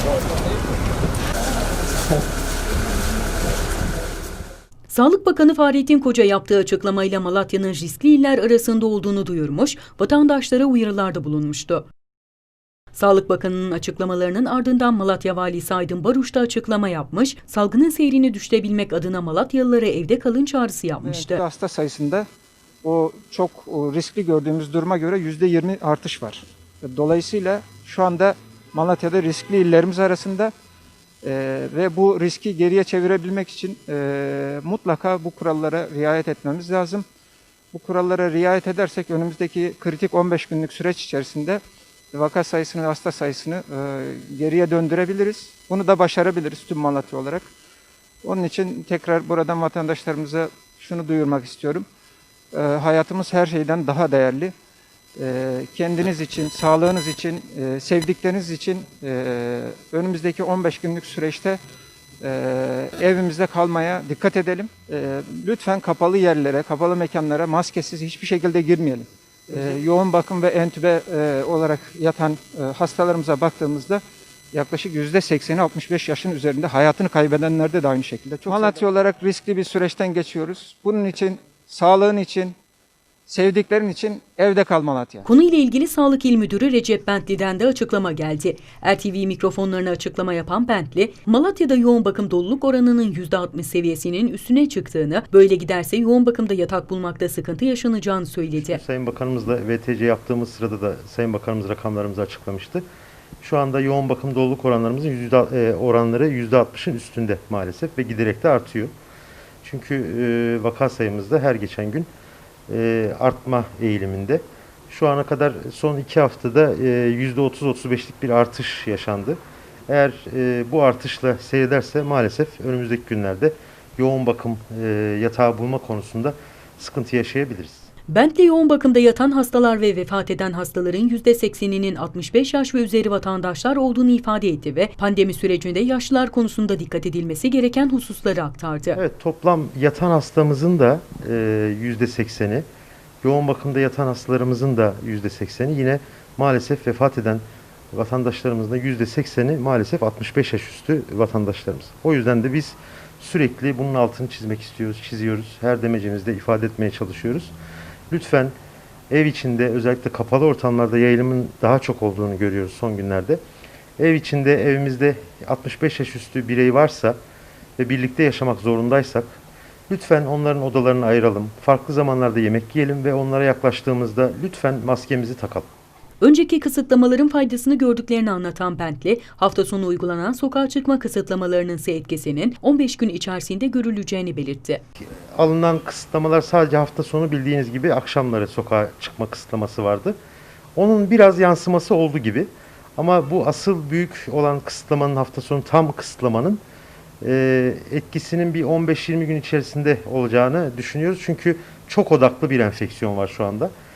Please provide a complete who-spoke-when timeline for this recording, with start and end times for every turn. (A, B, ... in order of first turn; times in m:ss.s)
0:04.9-0:11.9 A
0:12.9-0:21.4 A
0:21.0-0:22.3 B
0:22.8-0:30.5 B
0:31.2-0:37.0 B
0:37.7-0:41.6 B
0:42.1-0:47.5 B
0:48.2-0:51.9 B
0:52.5-0:54.5 B
0:55.2-1:01.6 B
1:02.2-1:14.0 B
1:14.5-1:22.6 B
1:23.3-1:25.3 B
1:25.3-1:38.8 A
1:38.6-1:42.9 C
1:43.4-1:48.9 C
1:49.6-1:52.1 C
1:52.7-2:07.9 C
2:08.1-2:19.0 A
2:19.0-2:22.6 C
2:23.2-2:37.5 C
2:38.1-2:38.5 C
2:39.1-2:43.4 C
2:44.0-2:47.2 C
2:47.8-2:49.4 C
2:49.9-2:55.7 C
2:56.2-3:04.8 A
3:05.4-3:10.2 C
3:10.8-3:16.6 C
3:17.2-3:23.7 C